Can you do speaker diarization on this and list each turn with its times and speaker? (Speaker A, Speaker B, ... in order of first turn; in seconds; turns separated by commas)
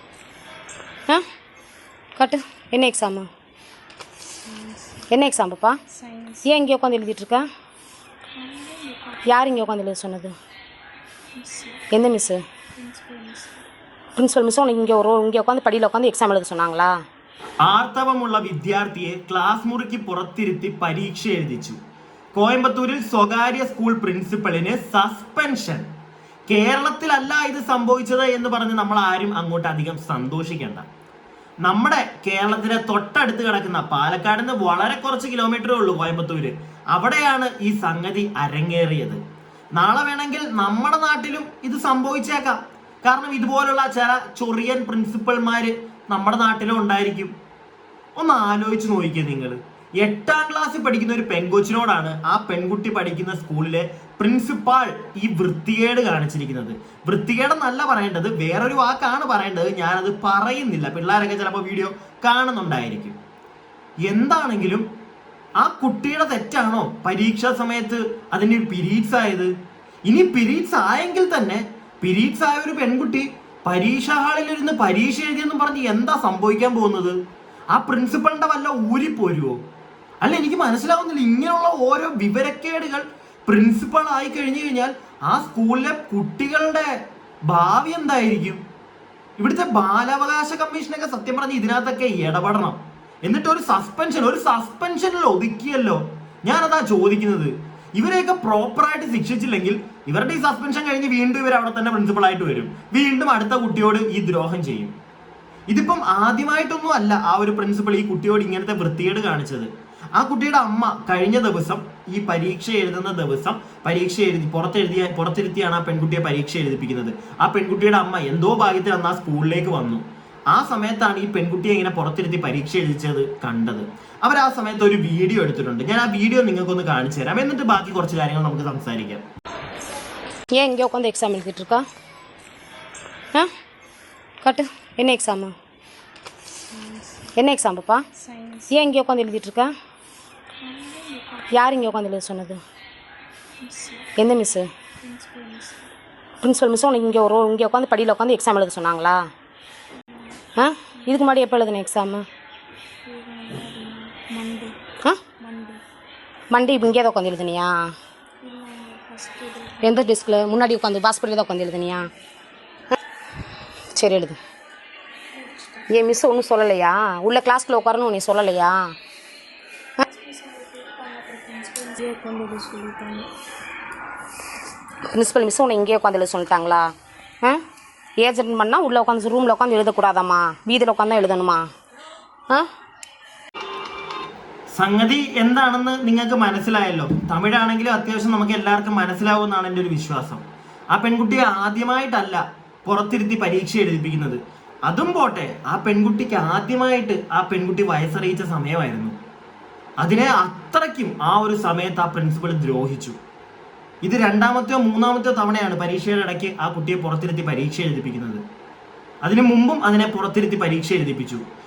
Speaker A: 2.2-3.3, Speaker B: 4.5-5.0, Speaker A: 5.1-5.8, Speaker B: 5.9-6.5, Speaker A: 6.4-7.4, Speaker B: 8.3-9.4, Speaker A: 9.2-10.3, Speaker B: 11.3-11.8, Speaker A: 11.9-12.4, Speaker B: 12.8-13.6, Speaker A: 14.2-16.9, Speaker C: 17.6-21.8, Speaker C: 22.3-25.9, Speaker C: 26.5-30.9, Speaker C: 31.6-39.2, Speaker C: 39.7-47.3, Speaker C: 48.2-63.2, Speaker C: 64.1-64.8, Speaker C: 65.6-69.5, Speaker C: 70.1-77.2, Speaker C: 77.7-79.6, Speaker C: 80.2-86.9, Speaker C: 87.5-88.6, Speaker C: 89.4-104.9, Speaker C: 105.7-129.2, Speaker A: 130.5-131.8, Speaker A: 134.4-135.5, Speaker B: 136.7-137.3, Speaker A: 137.3-138.0, Speaker B: 138.1-138.7, Speaker A: 138.7-139.7, Speaker B: 140.6-141.9, Speaker A: 141.5-142.6, Speaker B: 143.6-144.1, Speaker A: 144.2-144.7, Speaker B: 145.0-145.9, Speaker A: 146.4-149.2, Speaker B: 150.1-150.4, Speaker A: 150.6-152.2, Speaker B: 151.0-151.3, Speaker B: 153.0-154.8, Speaker B: 155.4-155.8, Speaker A: 156.5-157.7, Speaker B: 158.4-160.0, Speaker A: 159.8-162.1, Speaker A: 163.9-164.4, Speaker B: 165.3-165.9, Speaker A: 165.9-168.8, Speaker B: 170.0-173.3, Speaker A: 175.1-176.9, Speaker A: 178.2-181.7, Speaker C: 184.7-199.2, Speaker C: 200.0-203.2, Speaker C: 204.0-208.4, Speaker C: 209.2-211.4